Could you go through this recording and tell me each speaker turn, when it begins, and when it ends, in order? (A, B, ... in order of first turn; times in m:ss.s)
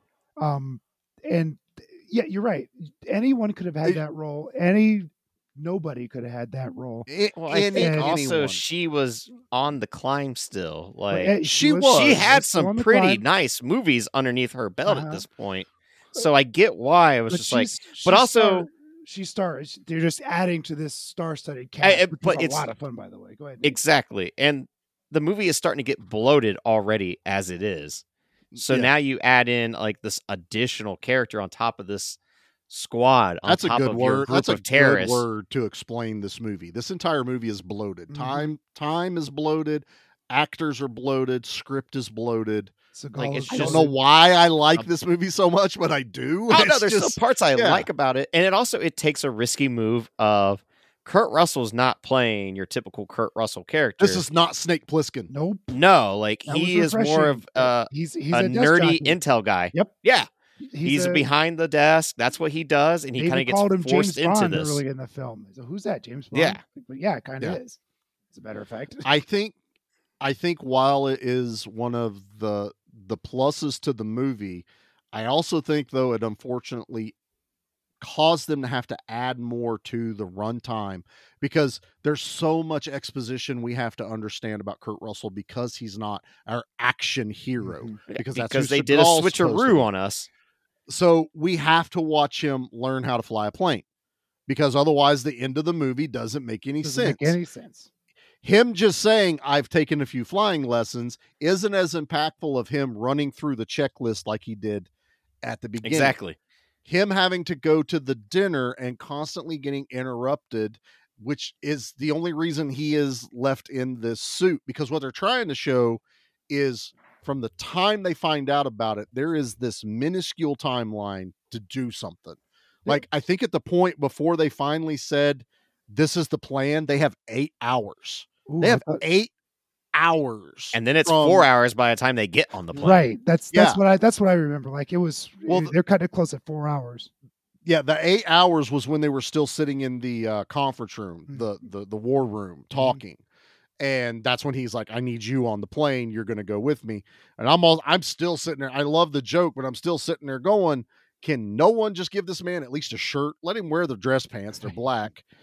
0:00.4-0:07.1 A
0:07.1-0:08.6 B
0:07.4-0:11.4 C
0:07.7-0:08.1 A
0:11.1-0:13.2 A
0:11.4-0:12.3 B
0:11.9-0:18.7 C
0:14.8-0:15.2 A
0:17.3-0:23.8 A
0:21.8-0:22.6 C
0:23.6-0:28.0 C
0:28.5-0:28.9 B
0:28.6-0:32.2 C
0:32.7-0:35.2 C
0:33.4-0:42.7 B
0:38.1-0:38.5 A
0:42.9-0:44.0 A
0:43.2-0:43.9 C
0:43.5-0:47.9 B
0:46.5-0:54.2 C
0:54.0-0:55.3 B
0:55.3-0:55.8 A
0:55.7-1:00.3 C
0:56.5-0:59.2 A
1:00.6-1:01.3 A
1:00.8-1:04.8 C
1:03.2-1:07.8 A
1:06.3-1:06.6 C
1:08.3-1:09.1 A
1:09.0-1:09.6 B
1:10.2-1:17.1 B
1:18.0-1:29.9 B
1:27.6-1:28.0 A
1:28.1-1:30.3 C
1:30.9-1:33.8 B
1:34.5-1:37.4 B
1:36.8-1:37.9 A
1:38.4-1:44.9 B
1:45.4-1:46.2 B
1:45.8-1:46.4 C
1:46.8-2:09.3 B
2:08.5-2:09.0 A
2:09.9-2:11.4 B
2:10.7-2:13.0 C
2:12.8-2:17.1 A
2:13.5-2:13.8 B
2:15.5-2:15.7 B
2:17.6-2:23.2 B
2:22.7-2:23.0 A
2:23.8-2:35.2 B